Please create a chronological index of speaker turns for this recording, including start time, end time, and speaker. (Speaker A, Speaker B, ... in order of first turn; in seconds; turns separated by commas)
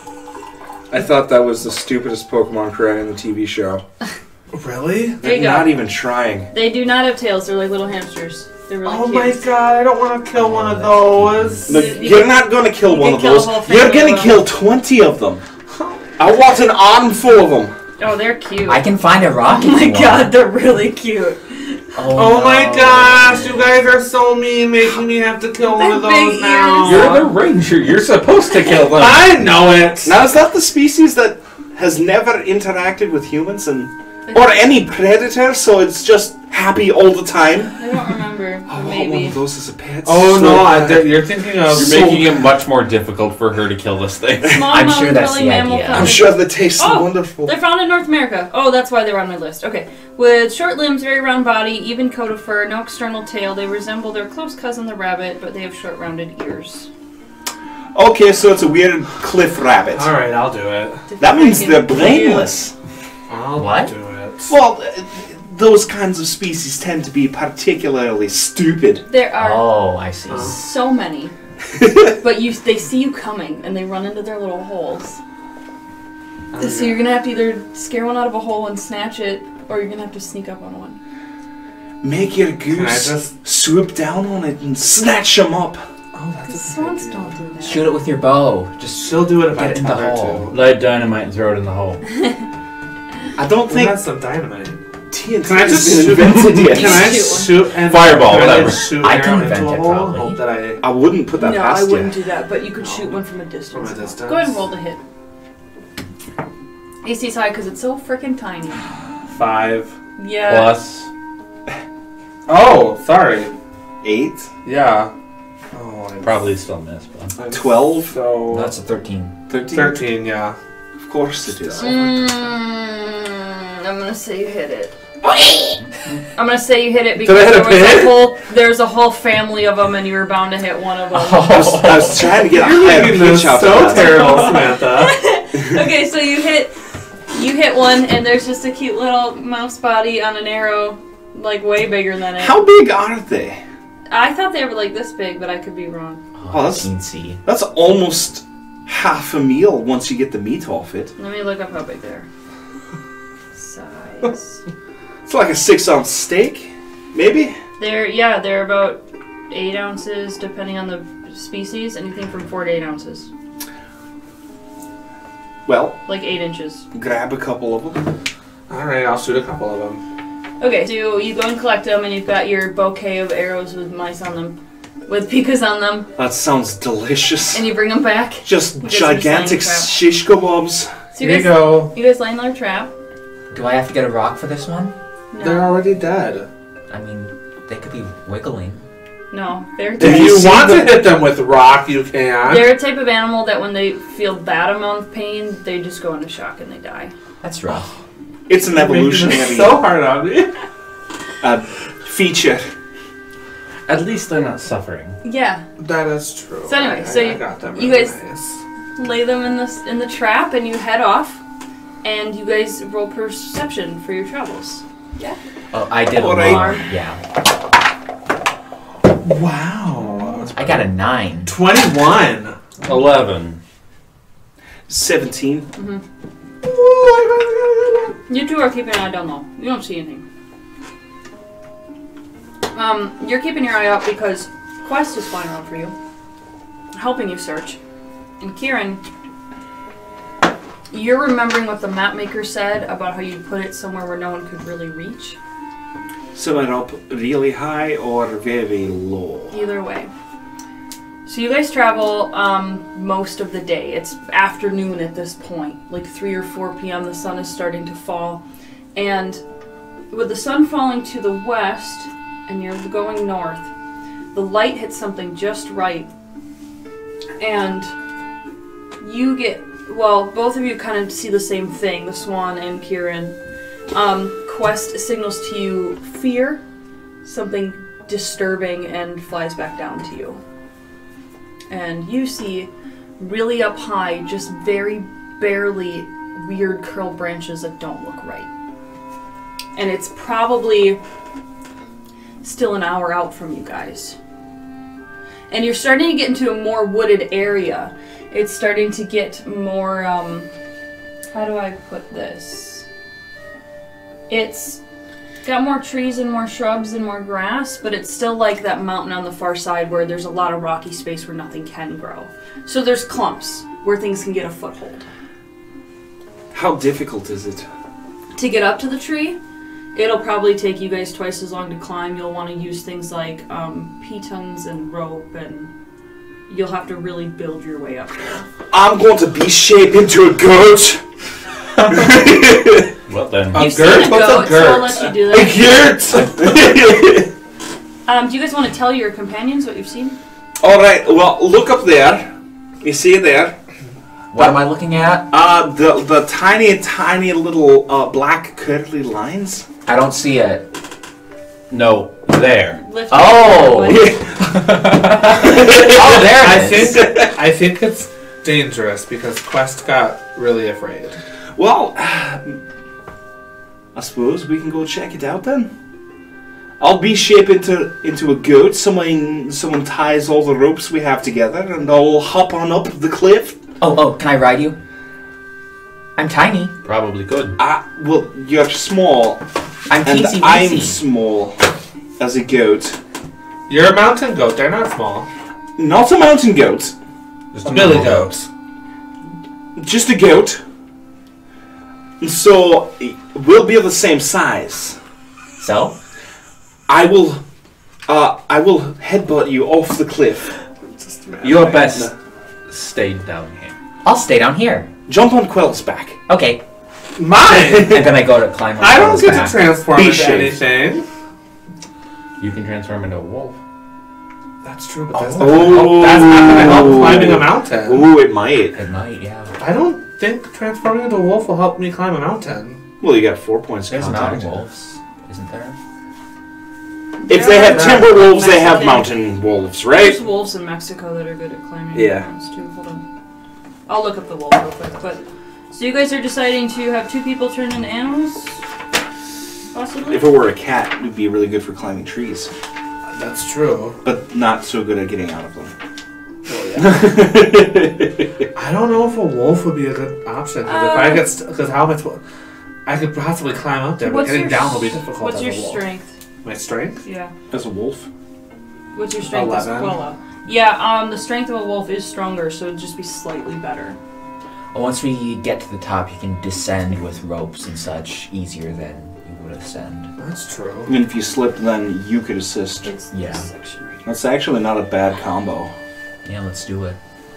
Speaker A: 0.9-3.8, Speaker B: 4.5-5.2, Speaker A: 5.2-6.5, Speaker C: 5.2-5.8, Speaker C: 6.5-9.4, Speaker B: 8.8-12.1, Speaker D: 10.3-11.7, Speaker C: 11.7-14.5, Speaker A: 11.7-15.4, Speaker B: 15.7-16.1, Speaker A: 16.2-17.7, Speaker C: 18.0-18.9, Speaker D: 18.6-20.3, Speaker C: 19.4-21.9, Speaker D: 21.9-23.8, Speaker B: 22.1-27.3, Speaker C: 25.7-27.2, Speaker E: 26.8-29.3, Speaker B: 28.8-30.2, Speaker A: 30.0-37.8, Speaker C: 34.3-34.6, Speaker C: 37.8-39.4, Speaker A: 38.7-42.5, Speaker B: 40.0-42.2, Speaker E: 41.7-44.7, Speaker C: 44.4-56.9, Speaker D: 44.6-46.3, Speaker A: 45.9-47.5, Speaker A: 58.0-60.1, Speaker B: 59.9-61.1, Speaker C: 61.1-62.5, Speaker A: 61.2-62.7, Speaker B: 63.3-64.5, Speaker D: 63.6-63.9, Speaker A: 64.5-69.1, Speaker C: 69.1-71.3, Speaker D: 69.4-70.6, Speaker B: 70.3-70.5, Speaker C: 72.2-75.2, Speaker B: 76.5-77.0, Speaker C: 76.6-81.0, Speaker A: 82.0-85.8, Speaker B: 82.7-83.4, Speaker B: 86.1-87.4, Speaker C: 86.5-87.9, Speaker D: 87.6-90.5, Speaker B: 89.0-90.5, Speaker E: 90.5-92.0, Speaker A: 93.4-94.0, Speaker B: 93.7-94.8, Speaker A: 95.1-97.3, Speaker B: 95.4-100.8, Speaker C: 96.7-97.5, Speaker E: 97.8-99.0, Speaker D: 98.9-100.4, Speaker A: 100.8-102.2, Speaker C: 101.4-105.0, Speaker B: 102.8-104.6, Speaker C: 107.0-108.9, Speaker B: 109.3-109.9, Speaker C: 110.2-110.8, Speaker E: 110.4-111.1, Speaker B: 112.5-113.5, Speaker A: 114.0-114.5, Speaker B: 114.6-115.1, Speaker B: 115.7-116.5, Speaker E: 116.2-117.3, Speaker B: 117.4-118.7, Speaker A: 117.5-118.2, Speaker D: 118.5-119.3, Speaker A: 119.5-120.0, Speaker B: 119.7-120.6, Speaker A: 121.0-121.9, Speaker C: 121.8-125.8, Speaker C: 126.3-131.9, Speaker B: 127.2-128.3, Speaker D: 131.1-132.4, Speaker A: 131.5-134.4, Speaker B: 132.5-135.2, Speaker C: 133.9-136.7, Speaker C: 137.3-142.6, Speaker A: 142.4-143.6, Speaker C: 144.1-146.2, Speaker D: 146.4-147.4, Speaker A: 146.5-146.9, Speaker A: 147.4-151.1, Speaker C: 151.2-152.3, Speaker C: 153.6-154.6, Speaker A: 155.2-157.6, Speaker C: 157.8-163.3, Speaker A: 165.7-166.0, Speaker C: 166.1-166.9, Speaker A: 166.9-168.0, Speaker B: 168.7-170.0, Speaker C: 170.6-174.6, Speaker C: 175.1-176.1, Speaker A: 176.2-177.6, Speaker C: 177.5-180.0, Speaker A: 178.4-181.1, Speaker C: 181.2-182.9, Speaker B: 181.2-181.9, Speaker D: 183.5-184.9, Speaker C: 185.3-185.8, Speaker B: 185.4-186.5, Speaker D: 186.9-188.9, Speaker C: 189.3-190.6, Speaker B: 190.0-192.7, Speaker A: 190.0-191.0, Speaker C: 192.4-197.1, Speaker D: 197.4-197.9, Speaker A: 198.5-199.8, Speaker B: 198.7-200.6, Speaker A: 201.4-202.7, Speaker E: 203.9-205.2, Speaker C: 205.2-205.7, Speaker B: 205.8-208.6, Speaker C: 206.7-208.2, Speaker C: 209.0-211.4, Speaker C: 212.0-215.4, Speaker D: 215.7-217.2, Speaker A: 216.1-216.8, Speaker C: 216.4-216.8, Speaker B: 219.2-220.7, Speaker C: 220.0-220.5, Speaker D: 220.5-221.6, Speaker B: 221.5-222.6, Speaker E: 222.8-223.6, Speaker A: 224.9-225.7, Speaker C: 225.8-226.0, Speaker B: 226.6-228.1, Speaker C: 228.3-230.2, Speaker C: 232.7-235.9, Speaker C: 236.9-237.8, Speaker C: 238.4-239.0, Speaker C: 240.9-245.4, Speaker A: 246.3-249.6, Speaker C: 249.5-250.1, Speaker C: 251.3-258.4, Speaker C: 258.9-259.4, Speaker C: 260.1-263.7, Speaker C: 264.3-266.1, Speaker C: 267.4-267.9, Speaker C: 269.0-273.4, Speaker C: 273.9-276.6, Speaker C: 277.2-280.4, Speaker C: 281.7-288.5, Speaker C: 289.8-291.0, Speaker C: 292.4-294.2, Speaker C: 295.5-300.5, Speaker C: 301.3-302.9, Speaker C: 304.3-304.8, Speaker C: 305.4-315.1, Speaker A: 316.5-317.7, Speaker C: 318.4-319.4, Speaker C: 319.9-325.7, Speaker C: 326.5-328.4, Speaker A: 328.7-331.1, Speaker A: 331.8-332.9, Speaker E: 333.1-333.6, Speaker B: 333.5-335.1, Speaker C: 333.6-335.7, Speaker A: 335.2-337.3, Speaker C: 338.1-340.2, Speaker A: 340.6-342.3, Speaker A: 342.8-343.6, Speaker D: 344.3-345.3, Speaker A: 345.3-349.6, Speaker D: 349.9-350.7, Speaker E: 351.7-352.8, Speaker C: 352.8-354.2, Speaker D: 353.1-357.0, Speaker A: 353.9-357.3, Speaker B: 355.6-361.2, Speaker A: 361.6-362.6, Speaker A: 363.9-365.7, Speaker A: 366.8-373.6, Speaker D: 373.8-374.8, Speaker D: 376.2-376.7, Speaker E: 376.9-377.6, Speaker A: 377.6-379.4, Speaker D: 379.9-381.0, Speaker A: 380.0-381.6, Speaker A: 382.2-383.0, Speaker B: 383.7-385.3, Speaker A: 385.8-386.9, Speaker E: 387.5-388.3, Speaker B: 387.6-388.5, Speaker A: 389.8-390.6, Speaker A: 392.2-395.0, Speaker D: 395.6-395.9, Speaker A: 396.9-397.4, Speaker A: 398.1-400.5, Speaker B: 401.0-401.8, Speaker E: 401.4-402.1, Speaker A: 401.6-402.1, Speaker E: 402.7-403.7, Speaker D: 404.0-404.9, Speaker A: 405.1-406.2, Speaker D: 406.3-406.6, Speaker B: 407.2-411.1, Speaker D: 407.9-409.6, Speaker A: 409.9-410.6, Speaker E: 412.4-413.6, Speaker B: 414.6-418.1, Speaker A: 415.1-418.8, Speaker D: 418.7-419.5, Speaker B: 419.6-422.8, Speaker A: 423.0-424.5, Speaker D: 423.9-425.8, Speaker C: 427.2-429.1, Speaker A: 427.3-430.2, Speaker B: 427.7-428.1, Speaker C: 429.9-433.0, Speaker A: 431.9-432.3, Speaker C: 433.9-438.6, Speaker C: 439.7-440.3, Speaker A: 440.1-442.5, Speaker B: 443.1-444.0, Speaker A: 444.0-445.7, Speaker B: 446.5-447.0, Speaker A: 446.8-448.4, Speaker B: 448.6-452.2, Speaker C: 450.6-451.3, Speaker B: 452.9-455.8, Speaker C: 454.0-456.1, Speaker B: 456.4-457.0, Speaker C: 457.0-457.3, Speaker A: 457.5-458.1, Speaker C: 458.9-464.0, Speaker B: 459.2-460.0, Speaker D: 464.7-470.1, Speaker B: 470.2-470.9, Speaker A: 470.9-472.9, Speaker C: 472.8-474.2, Speaker D: 473.1-473.5, Speaker A: 474.1-475.7, Speaker D: 476.2-477.0